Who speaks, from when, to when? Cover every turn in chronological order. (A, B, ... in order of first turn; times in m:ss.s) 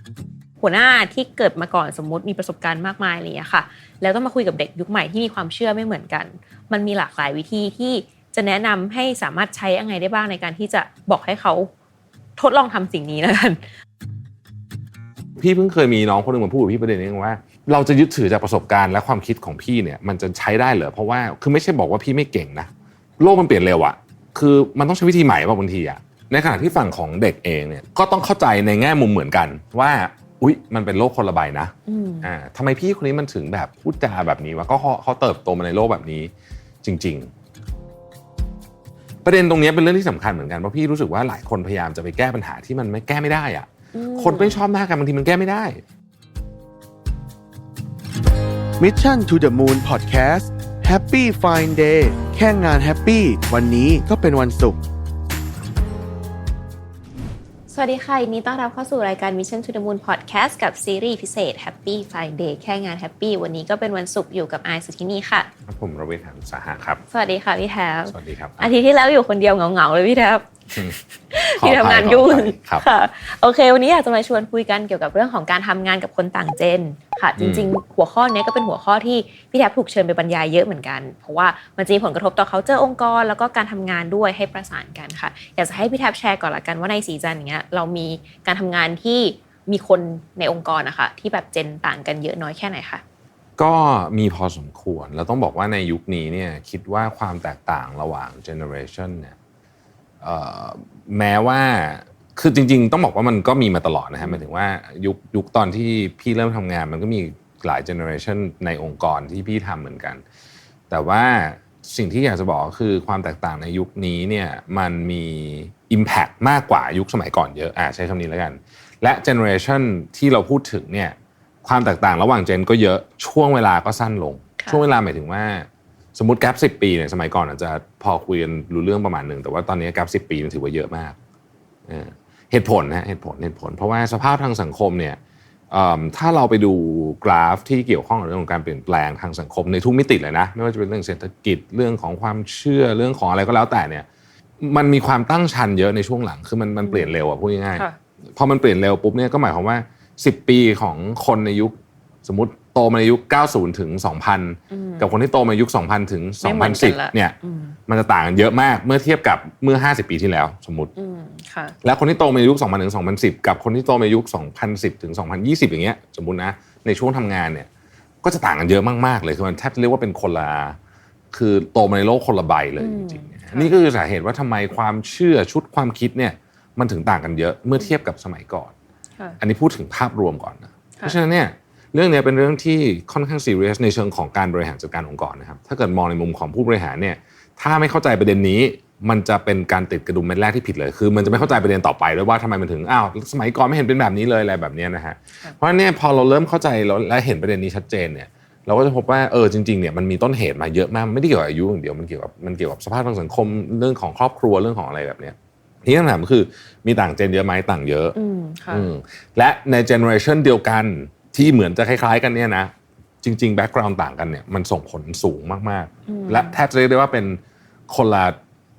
0:00.6-0:11.7 A
0:12.4-0:13.6 A
0:15.4-0:36.3 B
0:31.9-0:32.3 A
0:36.8-0:37.3 B
0:39.2-0:45.8 B
0:43.9-0:44.6 A
0:48.8-0:54.8 C
0:57.7-1:05.5 A
1:05.7-1:07.0 B
1:07.1-1:33.0 A
1:08.1-1:08.7 B
1:11.6-1:12.8 B
1:17.4-1:17.7 B
1:33.6-1:39.4 B
1:40.2-1:50.2 B
1:50.9-2:11.2 B
2:04.6-2:04.8 A
2:11.9-2:15.2 B
2:15.7-2:24.0 B
2:24.6-2:31.7 B
2:26.8-2:27.1 A
2:32.2-2:37.4 B
2:34.7-2:35.1 A
2:36.4-2:37.8 A
2:37.9-2:40.9 B
2:41.0-2:41.8 A
2:41.8-2:47.7 B
2:48.2-2:50.8 B
2:51.3-2:58.7 B
2:52.8-2:53.7 A
2:59.4-3:28.2 B
3:28.2-3:28.9 A
3:28.7-3:32.7 B
3:33.2-3:38.4 B
3:36.1-3:36.6 A